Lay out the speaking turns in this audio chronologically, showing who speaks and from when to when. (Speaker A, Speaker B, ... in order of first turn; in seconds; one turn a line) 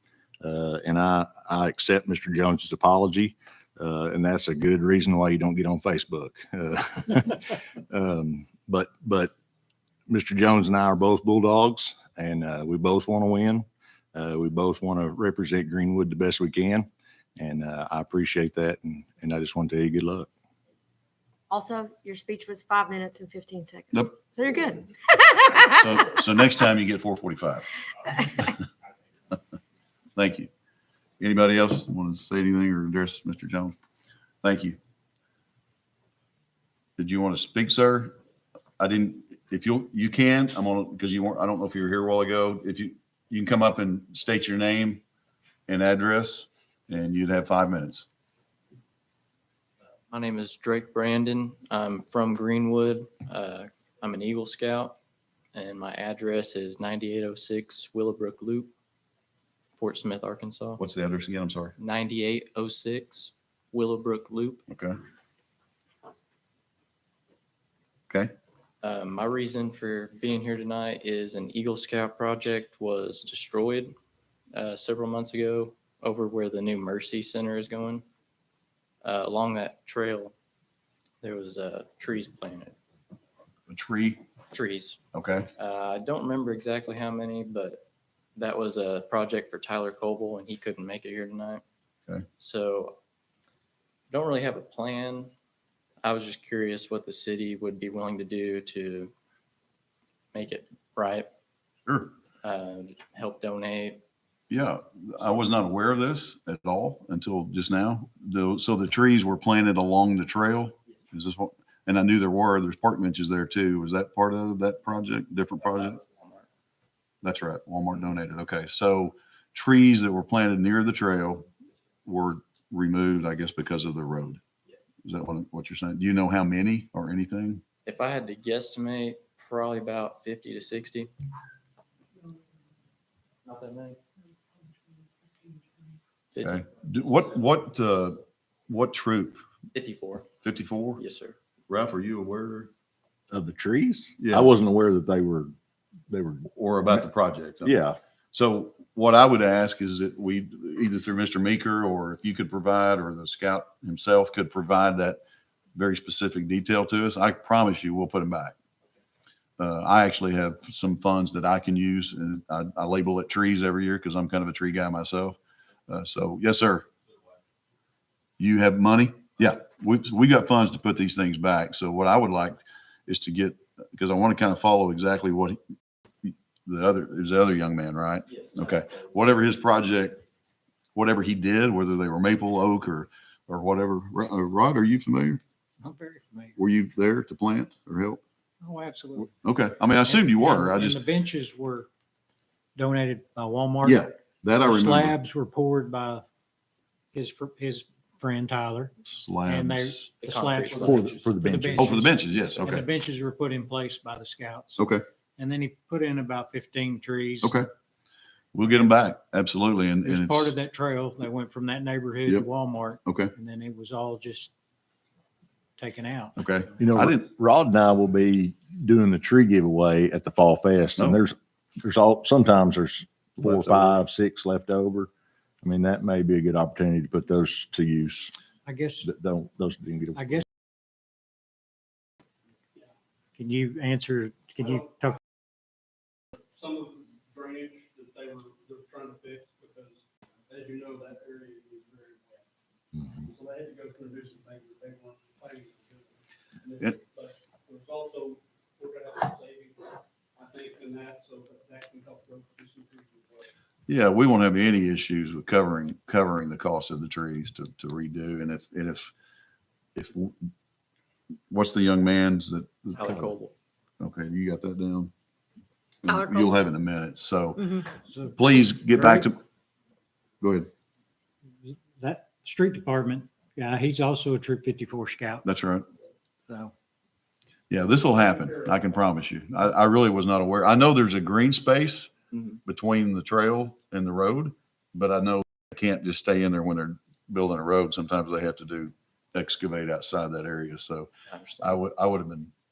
Speaker A: 0.4-9.3
Speaker A: 10.1-20.3
Speaker B: 21.5-25.5
Speaker C: 25.7-27.7
Speaker C: 30.1-30.5
Speaker C: 31.2-33.7
Speaker C: 34.4-34.8
Speaker C: 37.0-38.1
Speaker C: 38.8-45.0
Speaker C: 45.7-48.1
Speaker D: 50.1-55.0
Speaker D: 55.5-58.7
Speaker D: 59.8-60.8
Speaker C: 60.8-61.8
Speaker D: 61.8-64.7
Speaker C: 64.7-65.0
Speaker D: 68.8-73.9
Speaker D: 74.5-78.0
Speaker D: 79.0-80.3
Speaker D: 81.2-82.7
Speaker C: 83.7-84.2
Speaker D: 84.5-85.0
Speaker C: 85.1-85.5
Speaker D: 85.6-87.8
Speaker D: 88.3-91.6
Speaker D: 92.4-93.0
Speaker D: 94.1-95.3
Speaker D: 96.0-99.1
Speaker D: 100.3-101.3
Speaker C: 101.9-102.1
Speaker D: 102.4-104.0
Speaker C: 104.5-116.0
Speaker D: 115.6-116.4
Speaker C: 117.2-121.5
Speaker C: 122.0-124.4
Speaker C: 125.0-127.6
Speaker D: 127.8-131.1
Speaker D: 133.4-134.0
Speaker D: 136.3-137.4
Speaker C: 136.4-139.4
Speaker D: 139.7-140.3
Speaker C: 140.4-141.0
Speaker D: 141.0-141.3
Speaker C: 141.7-142.7
Speaker A: 143.3-145.5
Speaker C: 144.2-144.5
Speaker A: 146.1-147.1
Speaker C: 146.5-147.7
Speaker A: 147.6-148.0
Speaker C: 148.3-155.2
Speaker C: 155.7-158.5
Speaker C: 159.6-166.9
Speaker C: 168.4-175.6
Speaker C: 176.2-180.2
Speaker D: 178.3-179.0
Speaker C: 180.9-185.4
Speaker E: 185.8-186.6
Speaker C: 186.6-188.2
Speaker E: 188.6-189.3
Speaker C: 189.4-191.0
Speaker E: 190.0-191.9
Speaker E: 192.8-196.2
Speaker C: 193.8-195.1
Speaker E: 197.1-204.8
Speaker C: 199.0-200.1
Speaker D: 200.2-201.2
Speaker A: 200.8-202.0
Speaker C: 201.8-202.9
Speaker C: 204.8-205.0
Speaker E: 205.4-207.5
Speaker C: 208.5-210.5
Speaker E: 210.0-214.5
Speaker C: 213.0-213.3
Speaker E: 215.8-216.4
Speaker C: 216.4-217.2
Speaker A: 216.8-225.1
Speaker C: 223.4-224.0
Speaker A: 225.6-228.3
Speaker E: 228.7-229.1
Speaker A: 229.0-230.4
Speaker E: 230.1-230.4
Speaker E: 233.4-235.2
Speaker F: 236.5-242.5
Speaker F: 243.0-253.5
Speaker C: 253.9-259.1
Speaker C: 259.9-260.4
Speaker C: 261.5-263.3
Speaker D: 262.9-263.5
Speaker C: 264.0-265.1
Speaker C: 266.0-267.7
Speaker E: 268.0-269.3
Speaker C: 268.3-269.4
Speaker C: 270.4-270.7
Speaker E: 271.6-275.4
Speaker C: 275.4-275.9
Speaker E: 276.5-276.7
Speaker C: 277.7-282.1
Speaker C: 282.6-292.5
Speaker D: 291.3-291.8